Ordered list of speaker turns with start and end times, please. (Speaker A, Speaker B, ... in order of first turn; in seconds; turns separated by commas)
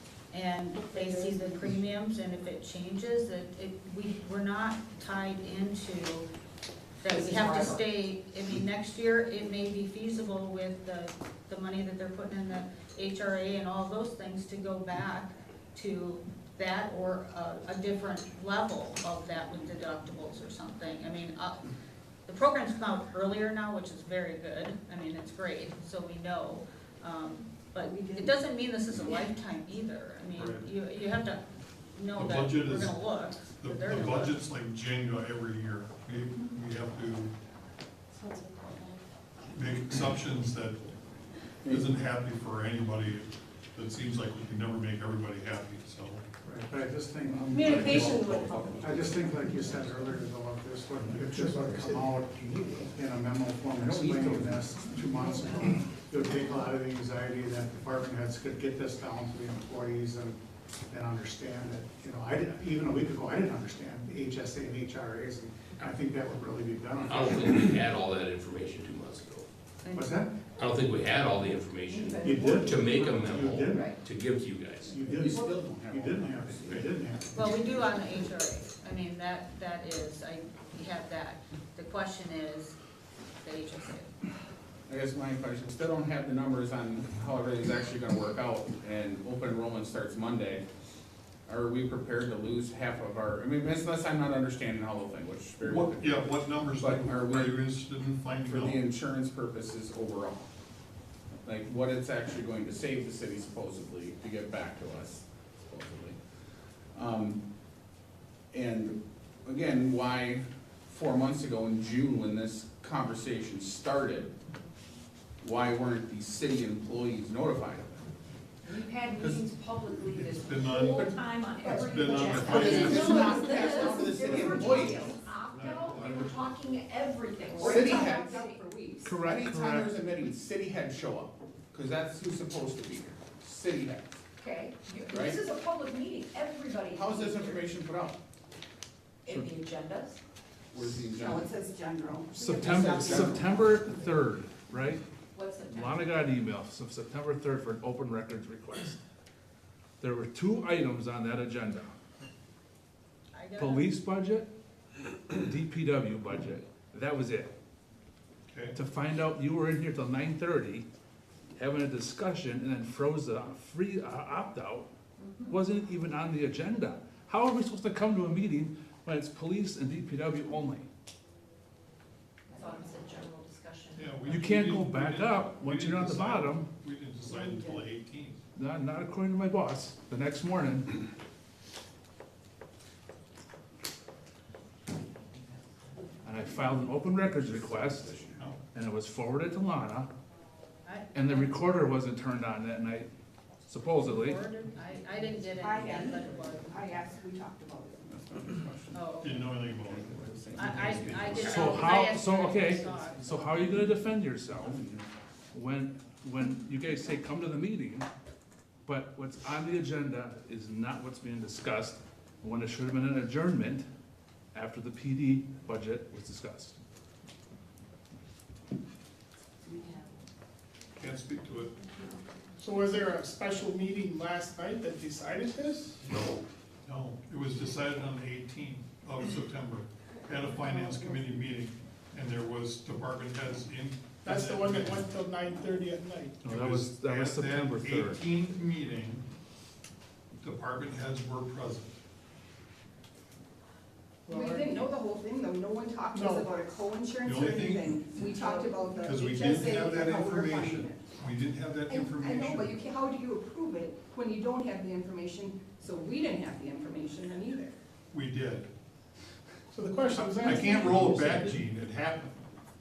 Speaker A: 0.3-6.3, Speaker B: 0.9-1.4, Speaker A: 7.0-21.6, Speaker B: 7.1-7.8, Speaker A: 22.3-31.4, Speaker C: 27.9-28.3, Speaker D: 30.4-30.7, Speaker A: 31.9-34.3, Speaker D: 32.1-33.0, Speaker D: 33.6-37.3, Speaker E: 38.2-39.0, Speaker D: 39.5-40.8, Speaker D: 41.6-46.2, Speaker F: 46.4-60.4, Speaker E: 47.5-48.7, Speaker G: 48.3-48.9, Speaker G: 53.8-54.7, Speaker F: 60.9-67.8, Speaker H: 67.0-69.5, Speaker A: 69.8-70.2, Speaker F: 69.9-70.3, Speaker H: 70.6-74.9, Speaker B: 71.9-73.2, Speaker F: 72.1-74.0, Speaker F: 74.8-77.9, Speaker G: 75.0-76.9, Speaker A: 77.3-82.8, Speaker A: 83.4-84.1, Speaker G: 84.9-90.7, Speaker G: 91.5-97.7, Speaker D: 95.6-98.8, Speaker G: 98.4-100.5, Speaker G: 101.4-106.2, Speaker G: 106.9-107.4, Speaker G: 108.5-114.3, Speaker G: 115.4-118.1, Speaker B: 118.6-128.6, Speaker G: 119.2-119.5, Speaker D: 120.1-123.2, Speaker C: 120.6-121.1, Speaker C: 121.6-125.6, Speaker G: 122.6-125.0, Speaker D: 125.5-126.4, Speaker C: 127.5-129.2, Speaker G: 127.7-128.3, Speaker I: 129.0-129.9, Speaker G: 129.2-134.2, Speaker C: 134.4-135.7, Speaker B: 134.6-137.6, Speaker G: 135.1-135.4, Speaker C: 136.9-137.4, Speaker G: 136.9-138.2, Speaker B: 139.3-140.2, Speaker I: 139.3-139.6, Speaker G: 140.7-141.5, Speaker C: 140.8-143.8, Speaker I: 142.3-145.0, Speaker B: 145.3-146.2, Speaker I: 145.7-149.0, Speaker I: 150.0-151.9, Speaker A: 153.3-153.9, Speaker I: 153.6-154.5, Speaker I: 155.3-157.5, Speaker D: 158.5-158.8, Speaker I: 158.7-160.9, Speaker I: 161.6-164.9, Speaker B: 165.2-165.5, Speaker I: 165.5-170.9, Speaker B: 172.5-174.1, Speaker D: 173.9-178.4, Speaker I: 174.3-176.7, Speaker I: 178.6-181.0, Speaker I: 186.2-188.2, Speaker G: 187.7-188.4, Speaker I: 188.7-190.1, Speaker A: 190.8-191.6, Speaker I: 191.1-193.1, Speaker I: 193.7-194.4, Speaker A: 193.9-196.9, Speaker C: 195.6-198.1, Speaker G: 198.1-201.2, Speaker A: 198.9-199.4, Speaker D: 199.2-201.4, Speaker A: 200.6-203.5, Speaker F: 200.8-201.3, Speaker I: 201.4-204.8, Speaker H: 201.4-201.7, Speaker G: 204.6-205.1, Speaker I: 205.5-208.1, Speaker I: 208.9-213.8, Speaker I: 214.5-216.8, Speaker B: 219.7-220.1, Speaker D: 221.0-221.8, Speaker E: 222.6-226.0, Speaker H: 226.1-226.4, Speaker D: 226.8-235.1, Speaker E: 234.2-236.4, Speaker I: 236.4-238.2, Speaker D: 236.5-239.2, Speaker D: 240.4-241.9, Speaker C: 244.3-251.2, Speaker E: 244.3-244.6, Speaker E: 246.1-246.5, Speaker D: 247.2-248.0, Speaker D: 249.0-252.8, Speaker C: 251.8-257.8, Speaker D: 258.1-258.7, Speaker E: 259.7-261.0, Speaker D: 260.2-262.4, Speaker I: 260.6-261.5